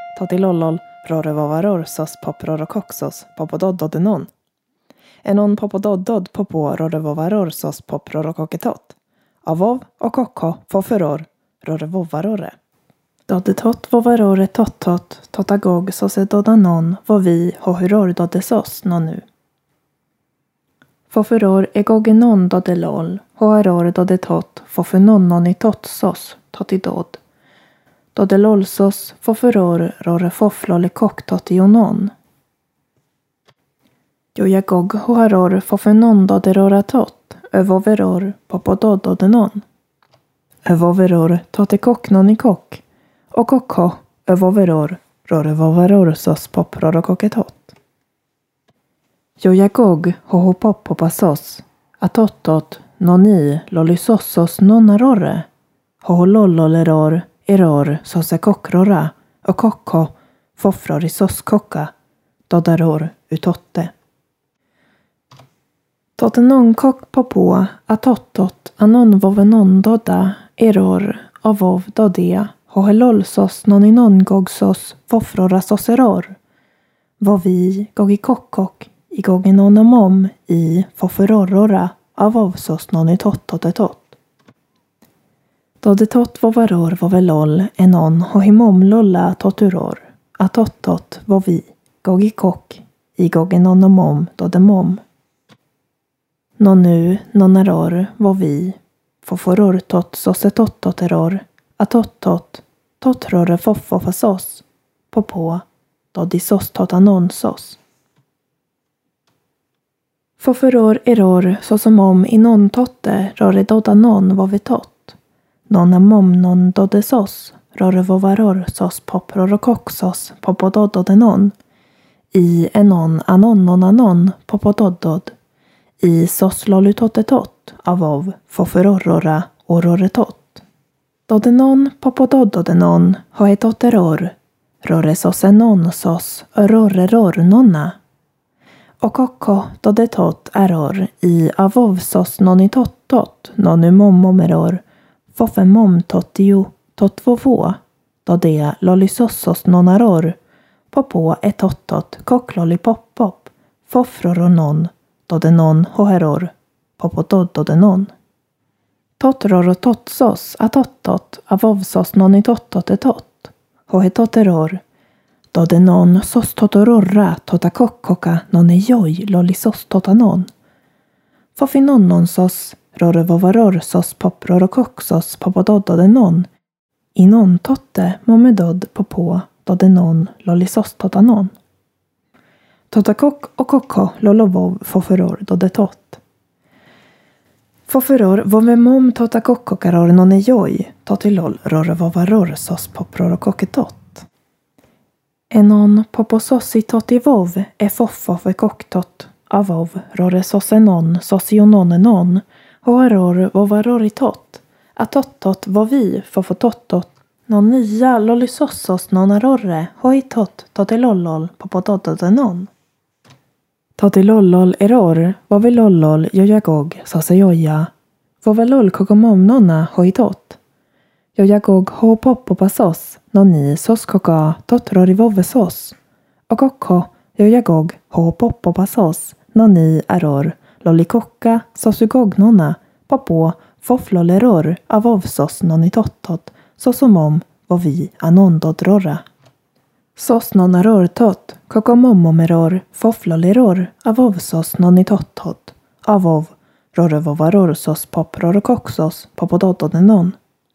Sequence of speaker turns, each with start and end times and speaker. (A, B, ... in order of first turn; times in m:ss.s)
0:00.1-0:04.3 A
0:05.2-0:12.5 A
0:13.3-0:19.3 A
0:21.1-0:27.2 A
0:28.1-0:32.1 A
0:34.3-0:39.6 A
0:40.6-0:47.8 A
0:49.4-0:55.5 A
0:56.0-1:01.9 A
1:02.5-1:03.9 A
1:06.2-1:16.4 A
1:17.2-1:24.2 A
1:25.8-1:35.0 A
1:36.6-1:47.8 A
1:50.4-1:55.2 A
1:55.7-2:01.5 A
2:02.3-2:05.3 A
2:06.0-2:10.6 A
2:11.3-2:18.0 A
2:19.0-2:30.4 A
2:30.9-2:38.1 A
2:39.2-2:44.8 A
2:45.5-2:50.5 A
2:51.6-2:56.5 A
2:57.1-3:01.5 A
3:02.9-3:06.2 A
3:07.9-3:14.3 A
3:15.5-3:32.7 A
3:34.0-3:37.9 A
3:38.4-3:40.6 A
3:41.3-3:46.0 A
3:46.5-3:59.2 A
4:00.2-4:10.4 A